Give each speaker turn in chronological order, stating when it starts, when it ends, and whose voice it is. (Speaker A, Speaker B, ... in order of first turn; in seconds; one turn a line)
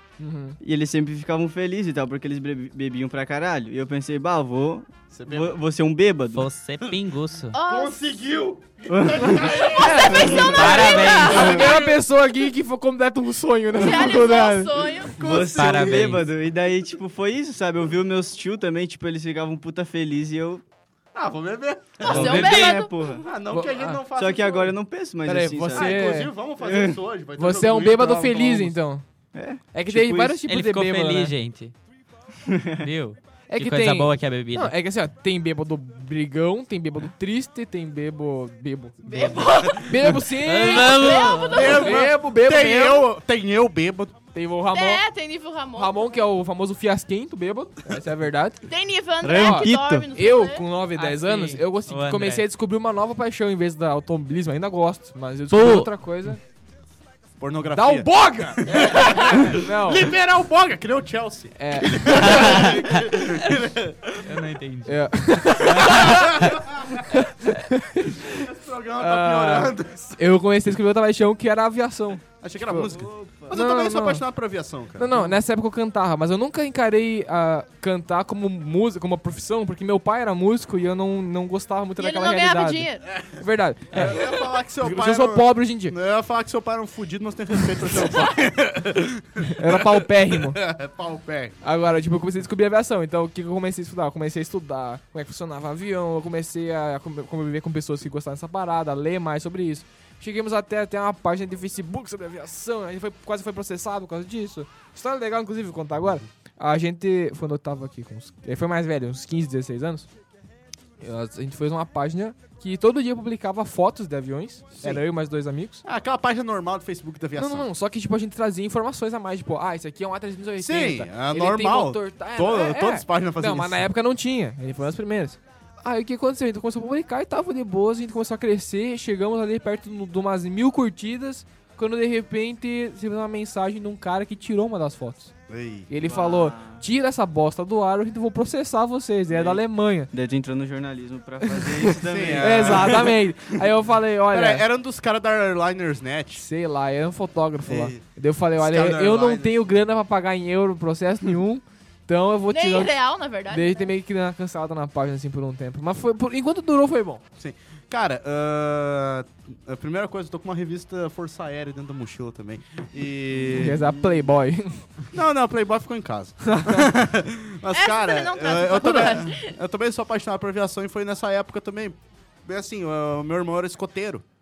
Speaker A: 0.2-0.6
Speaker B: 0.6-6.5
Speaker C: 5.1-5.6
Speaker D: 6.3-7.6
Speaker E: 7.5-8.0
Speaker C: 7.6-12.1
Speaker B: 8.9-11.6
Speaker E: 9.6-11.6
Speaker A: 9.7-14.9
Speaker D: 10.4-11.6
Speaker E: 13.7-15.3
Speaker C: 15.1-16.2
Speaker B: 15.2-20.6
Speaker D: 15.6-16.3
Speaker C: 21.1-24.8
Speaker E: 22.0-22.9
Speaker B: 22.0-23.3
Speaker A: 23.5-24.0
Speaker B: 24.1-27.0
Speaker A: 25.2-26.3
Speaker C: 25.7-28.8
Speaker A: 27.4-29.0
Speaker B: 29.3-30.4
Speaker A: 29.7-31.3
Speaker D: 30.5-31.7
Speaker B: 32.5-32.9
Speaker D: 32.8-34.7
Speaker A: 33.5-39.0
Speaker E: 39.0-42.1
Speaker D: 39.1-41.8
Speaker A: 39.8-43.1
Speaker C: 41.5-44.2
Speaker A: 44.3-45.0
Speaker E: 44.7-46.3
Speaker A: 45.8-48.6
Speaker E: 48.6-50.7
Speaker B: 49.2-50.1
Speaker A: 49.3-56.4
Speaker D: 51.0-52.5
Speaker D: 55.5-55.9
Speaker C: 57.4-64.4
Speaker A: 57.7-60.1
Speaker A: 61.6-62.7
Speaker D: 62.3-62.8
Speaker D: 64.2-66.6
Speaker A: 64.9-66.3
Speaker C: 65.8-67.1
Speaker A: 67.0-68.4
Speaker C: 68.2-70.2
Speaker A: 69.0-72.9
Speaker C: 72.4-75.3
Speaker B: 72.8-73.5
Speaker A: 73.5-74.2
Speaker A: 75.0-84.3
Speaker E: 82.0-83.3
Speaker C: 83.9-91.6
Speaker A: 84.8-86.0
Speaker A: 89.5-90.6
Speaker A: 91.6-110.1
Speaker A: 111.0-115.8
Speaker C: 115.8-117.7
Speaker A: 117.4-135.3
Speaker C: 120.6-123.8
Speaker C: 135.5-135.9
Speaker A: 135.9-140.1
Speaker B: 136.0-136.8
Speaker B: 139.3-143.1
Speaker A: 141.6-141.8
Speaker C: 142.0-143.3
Speaker A: 142.4-144.7
Speaker C: 144.3-146.4
Speaker A: 146.3-153.0
Speaker C: 147.7-148.1
Speaker C: 148.6-149.6
Speaker E: 152.5-153.9
Speaker A: 153.5-157.2
Speaker C: 157.4-164.1
Speaker A: 163.5-164.8
Speaker C: 165.1-174.2
Speaker A: 166.4-166.9
Speaker E: 167.7-169.6